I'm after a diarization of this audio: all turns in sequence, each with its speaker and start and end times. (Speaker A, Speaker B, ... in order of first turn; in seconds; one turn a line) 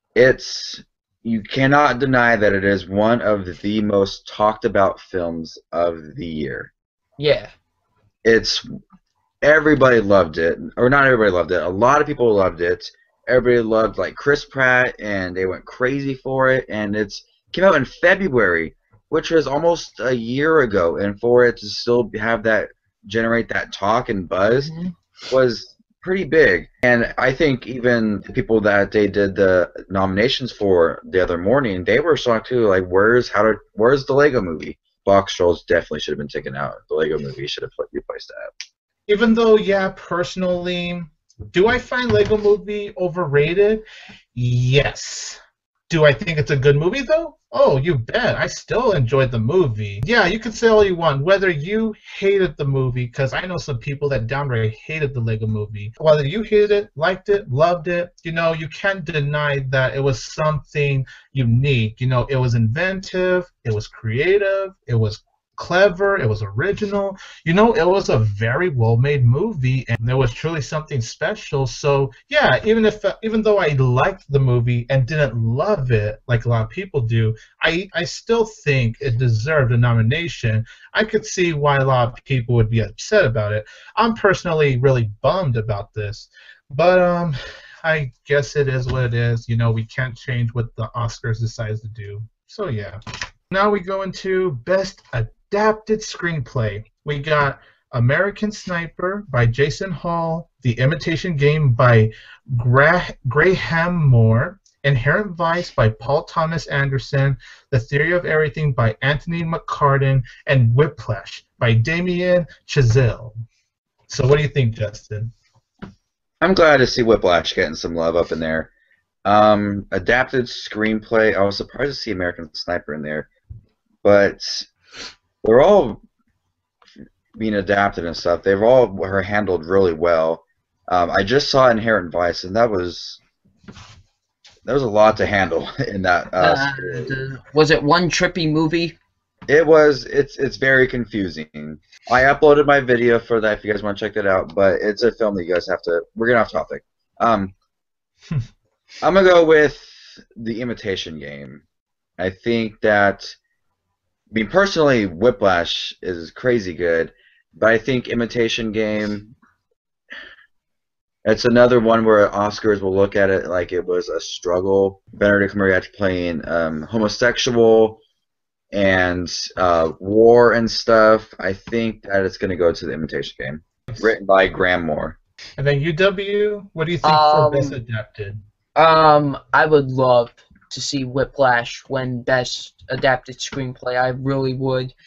Speaker A: 0.1-6.7
Speaker B: 7.2-7.5
Speaker A: 8.2-8.7
Speaker A: 9.4-24.7
Speaker B: 24.5-24.9
Speaker A: 25.3-38.5
Speaker C: 39.1-93.0
Speaker C: 93.5-113.3
Speaker C: 114.1-115.3
Speaker A: 116.4-118.7
Speaker A: 119.2-123.3
Speaker A: 124.0-124.7
Speaker A: 125.4-126.0
Speaker A: 127.3-133.2
Speaker A: 134.6-137.2
Speaker B: 136.4-139.0
Speaker A: 139.5-147.5
Speaker A: 149.0-151.6
Speaker A: 152.2-153.4
Speaker A: 154.3-159.3
Speaker A: 161.2-168.0
Speaker A: 168.7-175.2
Speaker C: 173.9-174.1
Speaker C: 175.6-178.4
Speaker B: 177.0-177.8
Speaker B: 178.7-184.9